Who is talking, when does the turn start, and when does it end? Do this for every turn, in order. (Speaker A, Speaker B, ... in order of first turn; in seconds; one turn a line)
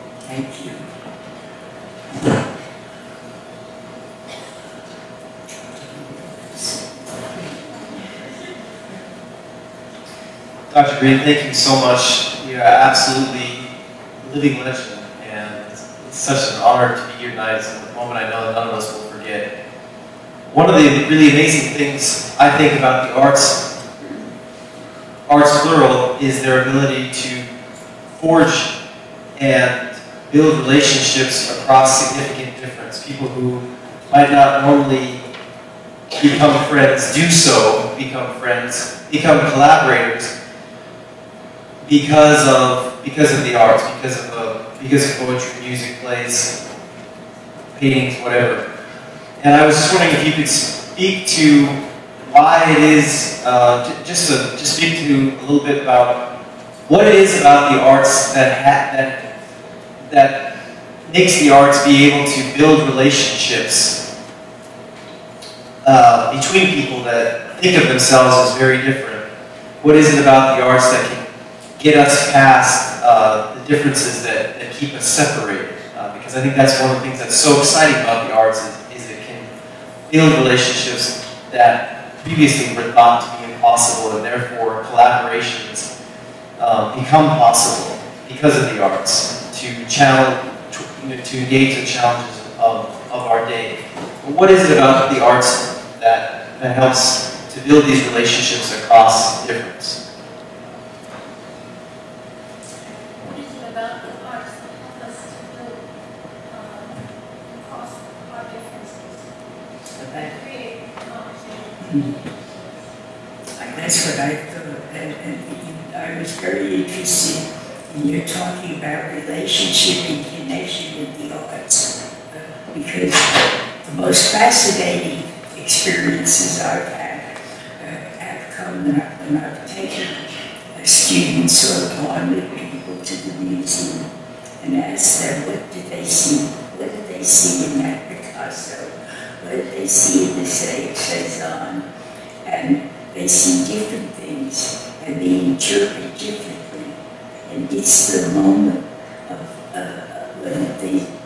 Speaker A: 0.2-0.8
Speaker A: 2.1-2.4
Speaker A: 5.5-8.1
Speaker B: 7.7-8.5
Speaker C: 10.7-13.7
Speaker C: 14.2-19.5
Speaker C: 20.5-23.7
Speaker C: 25.2-27.5
Speaker C: 28.1-28.7
Speaker C: 29.4-35.2
Speaker C: 36.1-40.3
Speaker C: 41.8-46.6
Speaker C: 47.7-48.6
Speaker C: 49.4-56.3
Speaker C: 56.9-59.2
Speaker C: 60.1-64.0
Speaker C: 65.8-69.2
Speaker C: 69.8-71.2
Speaker C: 71.8-79.5
Speaker C: 80.1-85.9
Speaker C: 86.6-100.0
Speaker B: 103.2-105.8
Speaker B: 106.5-109.3
Speaker A: 110.0-110.3
Speaker B: 110.1-112.9
Speaker A: 111.8-112.1
Speaker A: 113.5-134.1
Speaker A: 134.6-141.8
Speaker A: 142.4-151.1